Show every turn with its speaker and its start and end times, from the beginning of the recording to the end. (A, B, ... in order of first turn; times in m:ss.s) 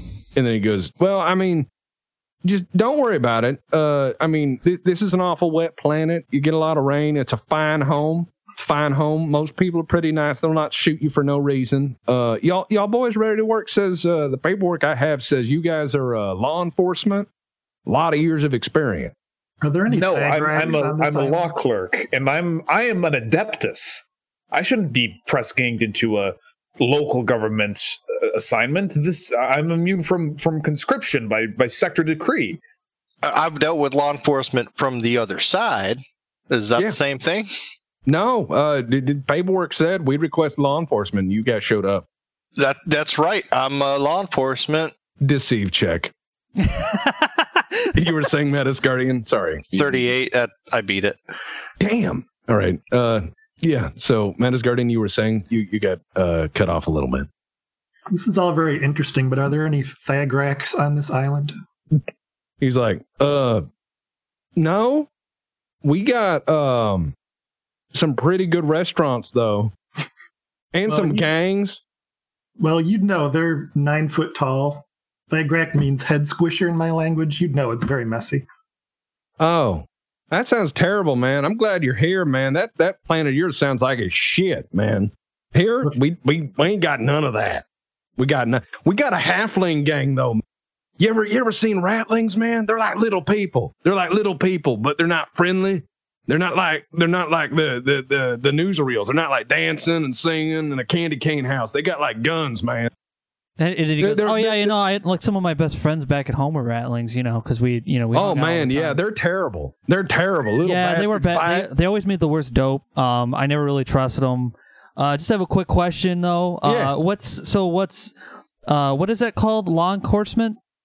0:00.3-0:01.7 A
0:02.4-0:17.3 A
0:17.9-0:19.1 A
0:19.6-0:21.5 B
0:19.9-0:32.6 C
0:33.2-0:37.5 D
0:38.1-0:42.0 A
0:42.6-0:44.9 D
0:45.2-0:46.1 A
0:46.6-0:47.4 E
0:47.9-0:50.1 A
0:49.8-0:51.2 D
0:51.8-0:57.3 A
0:58.1-1:01.6 B
1:02.6-1:03.6 A
1:04.6-1:05.1 A
1:05.8-1:07.1 A
1:07.9-1:09.7 A
1:10.7-1:11.8 A
1:10.9-1:11.3 B
1:12.6-1:18.5 B
1:19.4-1:27.6 A
1:28.2-1:30.4 A
1:31.0-1:42.9 A
1:43.6-1:49.0 E
1:44.0-1:44.8 A
1:48.1-1:51.7 A
1:50.6-1:58.1 E
1:56.6-1:57.0 A
1:58.7-2:00.6 E